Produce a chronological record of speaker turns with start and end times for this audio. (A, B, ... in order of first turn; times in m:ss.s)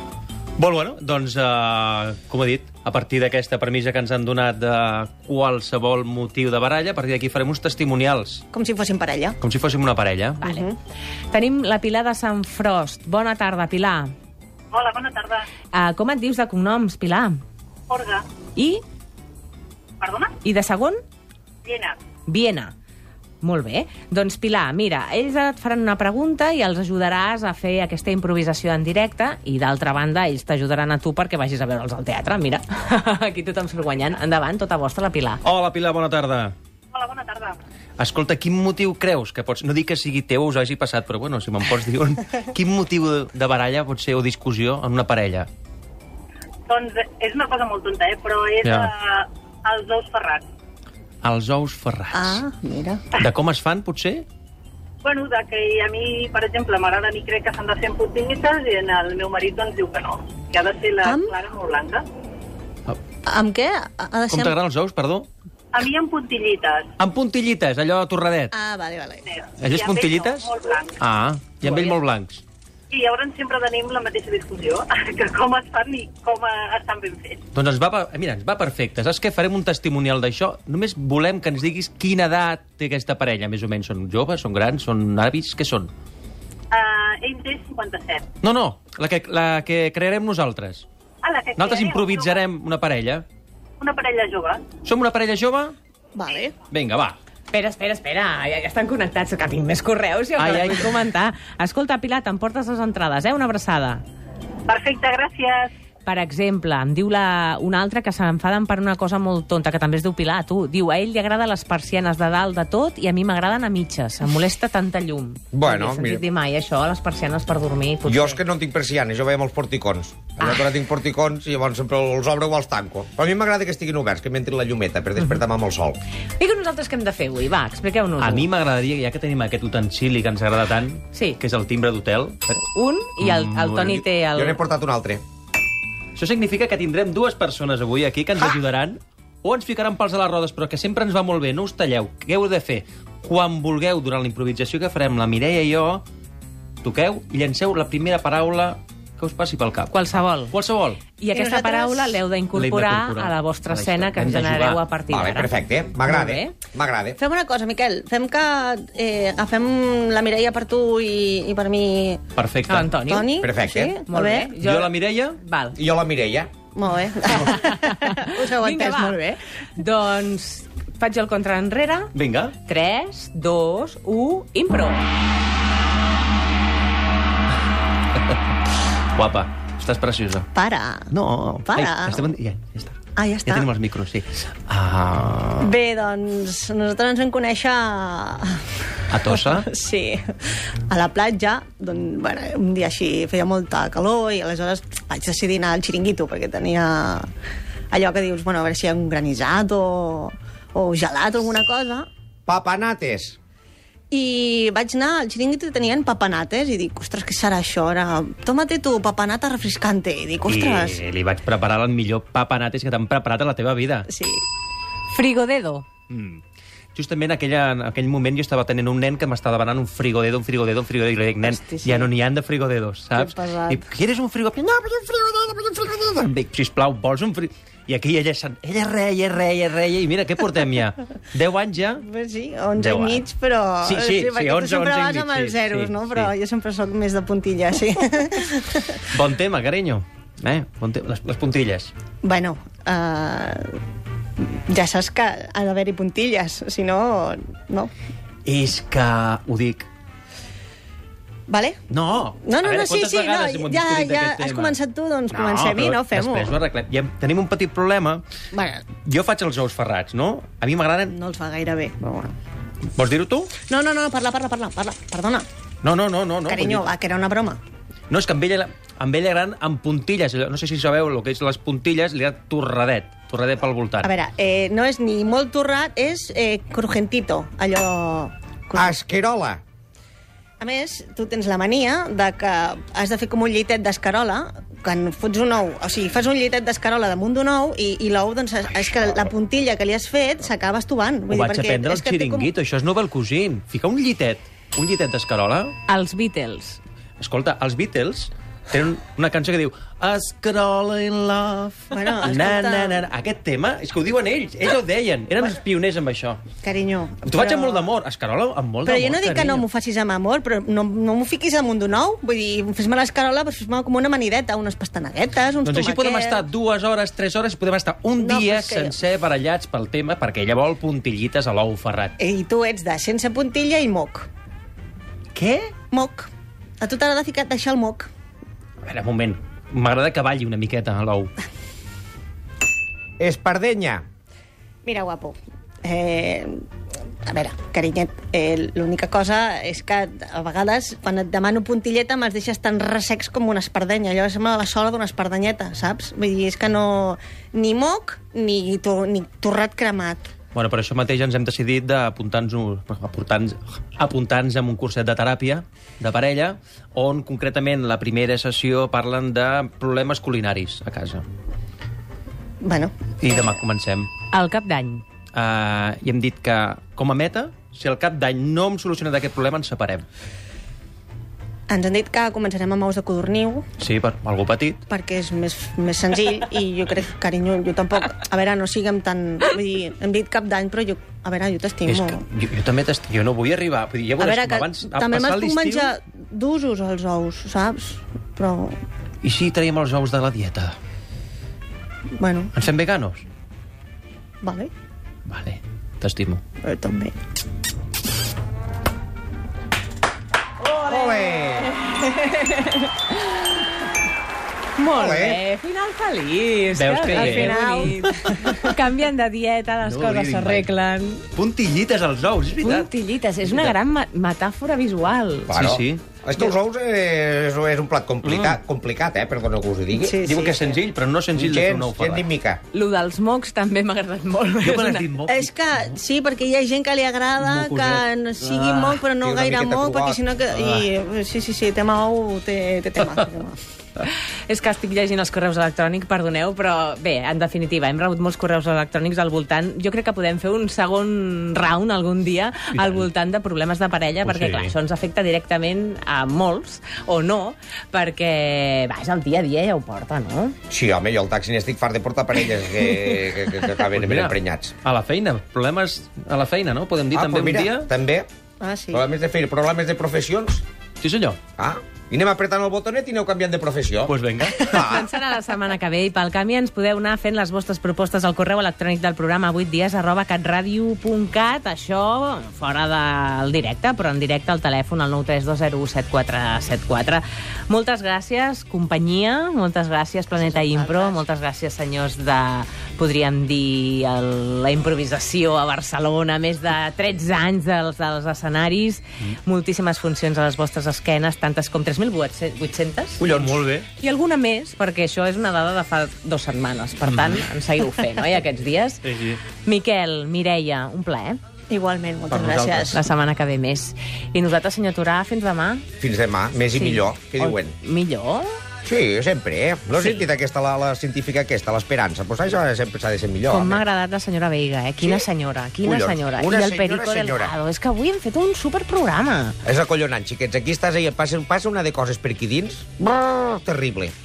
0:00.6-0:08.4 A
0:08.5-0:09.4 B
0:09.4-0:10.4 A
0:10.4-0:10.7 C
0:10.4-0:10.8 B
0:11.3-0:14.1 C
0:14.7-0:15.4 D
0:15.7-0:17.4 C
0:17.9-0:18.2 D
0:18.6-0:18.8 C
0:20.0-0:20.4 D
0:20.4-0:21.0 C
0:21.6-0:22.0 D
0:22.3-0:22.7 C
0:23.4-0:35.4 C
0:35.4-0:36.5 A
0:36.9-0:37.6 D
0:38.0-0:45.5 A
0:46.7-0:50.4 D
0:48.6-0:48.9 A
0:51.2-0:52.4 A
0:52.1-0:53.0 B
0:53.2-0:54.2 A
0:55.0-1:02.0 D
1:01.0-1:01.3 B
1:03.2-1:04.6 B
1:04.3-1:05.3 A
1:05.7-1:06.9 D
1:07.0-1:08.5 A
1:08.5-1:09.2 B
1:09.2-1:11.0 D
1:09.6-1:12.4 A
1:11.6-1:11.9 D
1:12.9-1:17.4 D
1:17.5-1:25.9 A
1:26.7-1:28.3 D
1:28.4-1:30.8 A
1:31.2-1:32.4 D
1:31.6-1:33.2 A
1:33.8-1:34.7 D
1:34.8-1:35.7 A
1:36.1-1:36.5 B
1:36.7-1:37.2 A
1:37.5-1:44.0 C
1:40.4-1:41.0 A
1:44.7-1:45.7 D
1:46.0-1:58.4 C
1:55.5-1:56.2 E
1:58.1-2:06.0 E
2:00.4-2:00.7 C
2:06.4-2:08.5 C
2:08.2-2:12.6 A
2:11.1-2:11.4 C
2:12.7-2:14.6 C
2:13.2-2:14.0 A
2:14.3-2:15.2 E
2:16.2-2:26.0 A
2:26.8-2:29.9 A
2:29.9-2:30.5 C
2:30.5-2:31.0 A
2:31.2-2:35.5 C
2:31.3-2:32.2 B
2:32.5-2:34.8 A
2:35.1-2:37.2 E
2:36.0-2:36.5 C
2:37.2-2:42.2 B
2:42.4-2:43.0 A
2:42.7-2:43.4 C
2:43.0-2:44.5 B
2:43.4-2:44.0 E
2:44.0-2:45.8 C
2:44.6-2:45.4 A
2:45.8-2:46.5 E
2:46.7-2:49.2 B
2:47.3-2:52.1 C
2:52.1-2:52.5 A
2:52.6-2:55.1 C
2:59.2-3:00.5 A
3:00.5-3:01.1 B
3:01.1-3:05.7 A
3:01.6-3:02.3 B
3:03.2-3:03.7 B
3:05.6-3:08.8 B
3:09.1-3:09.7 A
3:09.3-3:17.2 B
3:17.9-3:22.1 B
3:22.5-3:23.4 E
3:24.1-3:31.0 B
3:30.5-3:34.1 A
3:34.1-3:34.4 B
3:35.1-3:35.8 C
3:36.1-3:36.4 A
3:36.9-3:52.0 A
3:41.4-3:42.1 B
3:43.1-3:43.8 B
3:52.0-3:59.0 B
3:52.8-3:53.2 A
3:53.8-3:56.3 A
3:59.0-4:01.9 A
4:02.2-4:03.8 B
4:04.4-4:07.9 B
4:08.4-4:09.9 A
4:11.5-4:11.8 B
4:11.9-4:14.8 A
4:12.4-4:16.5 B
4:15.3-4:18.2 A
4:18.5-4:18.9 B
4:19.0-4:21.1 A
4:21.1-4:22.3 B
4:23.0-4:23.5 A
4:23.6-4:25.4 B
4:25.8-4:26.9 A
4:26.5-4:27.6 B
4:28.1-4:34.1 A
4:34.0-4:39.0 B
4:38.7-4:39.6 E
4:40.6-4:52.5 B
4:51.3-4:55.7 A
4:55.9-4:56.8 C
4:57.2-5:06.4 A
5:01.9-5:03.1 B
5:06.6-5:07.9 B
5:07.2-5:09.7 A
5:08.8-5:16.4 B
5:15.6-5:22.1 A
5:18.2-5:19.0 B
5:22.2-5:24.3 B
5:25.3-5:25.7 A
5:25.9-5:26.3 B
5:26.8-5:28.1 B
5:28.8-5:31.3 A
5:33.2-5:34.0 E
5:34.8-5:36.6 B
5:37.3-5:50.3 B
5:50.5-6:01.2 A
6:02.6-6:03.6 B
6:03.2-6:04.1 A
6:04.3-6:05.0 C
6:05.3-6:10.0 A
6:11.7-6:13.6 B
6:13.8-6:14.8 A
6:14.9-6:22.2 B
6:21.8-6:26.0 A
6:24.2-6:28.8 B
6:29.2-6:30.8 A
6:32.2-6:32.5 B
6:32.5-6:33.2 A
6:34.4-6:34.7 B
6:35.3-6:36.4 A
6:36.6-6:37.1 B
6:40.7-6:41.7 E
6:40.9-6:43.6 C
6:44.8-6:51.2 C
6:44.9-6:45.4 E
6:46.7-6:48.6 A
6:47.1-6:48.6 B
6:49.8-6:50.7 A
6:51.3-6:52.9 A
6:52.6-6:55.5 C
6:53.4-6:53.7 A
6:55.5-7:00.2 E
6:55.5-6:56.0 A
6:58.2-6:58.6 A
6:59.9-7:00.8 B
7:00.2-7:02.2 A
7:01.4-7:02.6 E
7:02.7-7:05.0 C
7:04.6-7:05.9 A
7:05.3-7:13.6 B
7:07.4-7:09.0 A
7:09.2-7:10.2 E
7:10.5-7:10.8 A
7:14.5-7:30.6 C
7:22.7-7:23.0 A
7:24.2-7:24.7 A
7:30.7-7:34.7 E
7:33.9-7:37.9 A
7:37.1-7:38.3 E
7:38.6-7:39.0 B
7:38.9-7:40.6 E
7:41.0-7:41.4 A
7:41.6-7:45.1 E
7:44.1-7:44.9 A
7:44.7-8:21.4 C
8:00.3-8:01.2 B
8:13.2-8:13.9 A
8:17.0-8:17.4 A
8:19.0-8:19.4 A
8:21.7-8:23.0 B
8:22.3-8:23.0 A
8:22.9-8:25.8 C
8:26.0-8:27.7 E
8:26.7-8:28.6 C
8:28.8-8:33.8 E
8:30.0-8:30.2 C
8:33.5-8:39.6 C
8:35.0-8:35.3 E
8:35.8-8:37.5 E
8:39.6-8:44.1 E